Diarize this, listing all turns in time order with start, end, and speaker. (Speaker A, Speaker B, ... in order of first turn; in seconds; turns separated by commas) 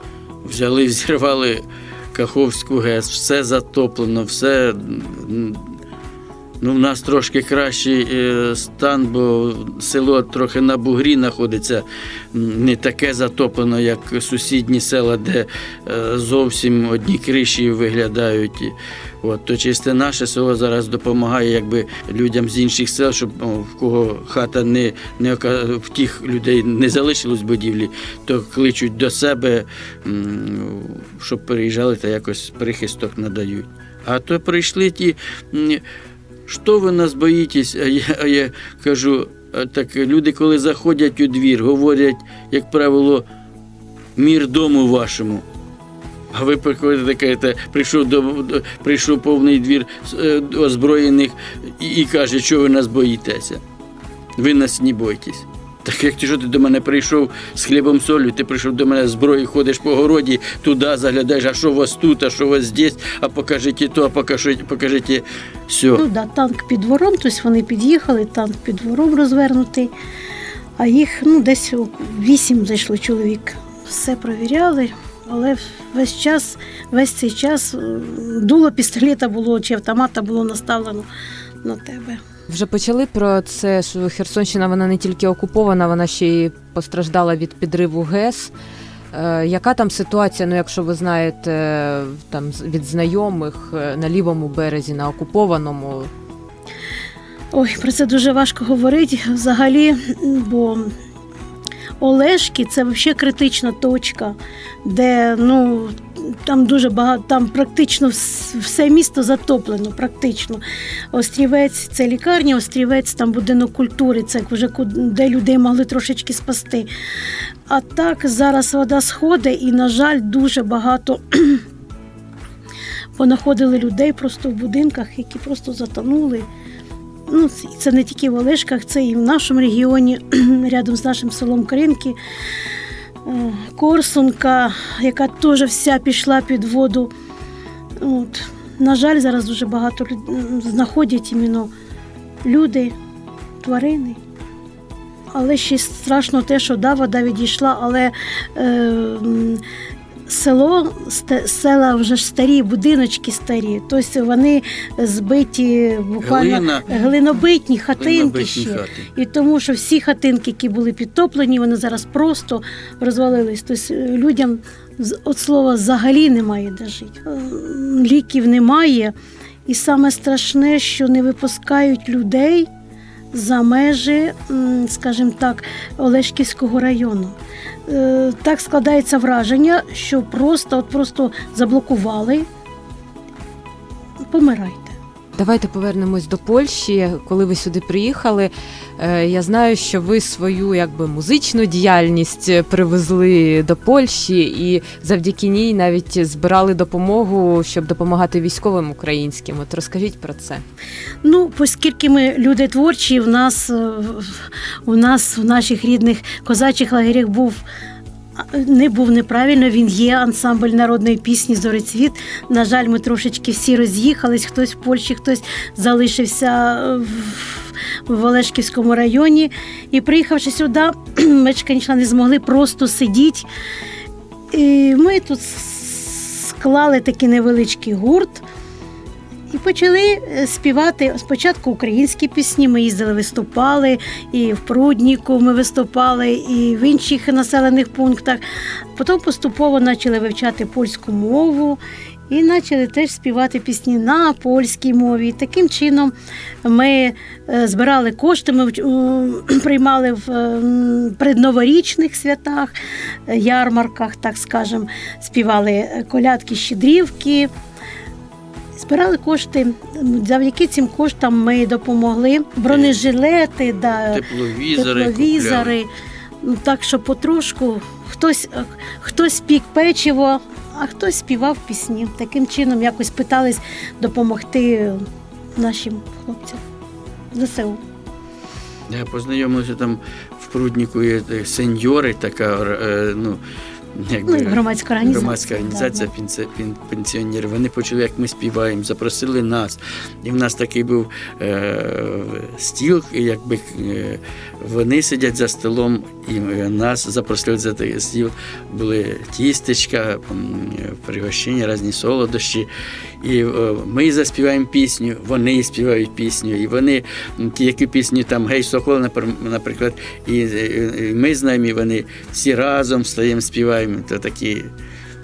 Speaker A: 0.4-5.7, Speaker A: 6.6-35.8, Speaker A: 36.5-43.2, Speaker A: 44.2-45.4, Speaker A: 46.3-53.6, Speaker A: 54.4-66.0, Speaker B: 66.0-69.9, Speaker B: 70.8-81.1, Speaker B: 81.6-82.2, Speaker C: 82.5-88.5, Speaker C: 89.1-96.1, Speaker B: 97.5-100.9, Speaker B: 102.0-116.9, Speaker B: 117.7-121.6, Speaker B: 123.2-126.5, Speaker B: 127.3-132.2, Speaker B: 133.2-137.1, Speaker B: 138.0-141.7, Speaker B: 142.4-142.9, Speaker B: 143.6-144.2, Speaker B: 145.3-149.6, Speaker B: 150.3-169.1, Speaker A: 156.2-157.0, Speaker A: 158.0-159.1, Speaker B: 169.7-172.7, Speaker B: 173.3-177.4, Speaker B: 177.9-182.5, Speaker B: 184.2-185.0, Speaker C: 185.4-200.6, Speaker B: 201.2-207.6, Speaker B: 208.4-223.5, Speaker B: 224.5-228.4, Speaker B: 229.5-238.4, Speaker B: 239.0-252.7, Speaker B: 253.3-257.5, Speaker B: 258.8-264.2, Speaker A: 262.7-263.0, Speaker A: 264.0-265.8, Speaker B: 264.7-265.9, Speaker B: 266.4-275.0, Speaker B: 275.6-276.6, Speaker B: 277.3-277.8, Speaker A: 278.9-283.4, Speaker A: 283.9-302.7, Speaker B: 284.3-286.1, Speaker A: 303.2-314.7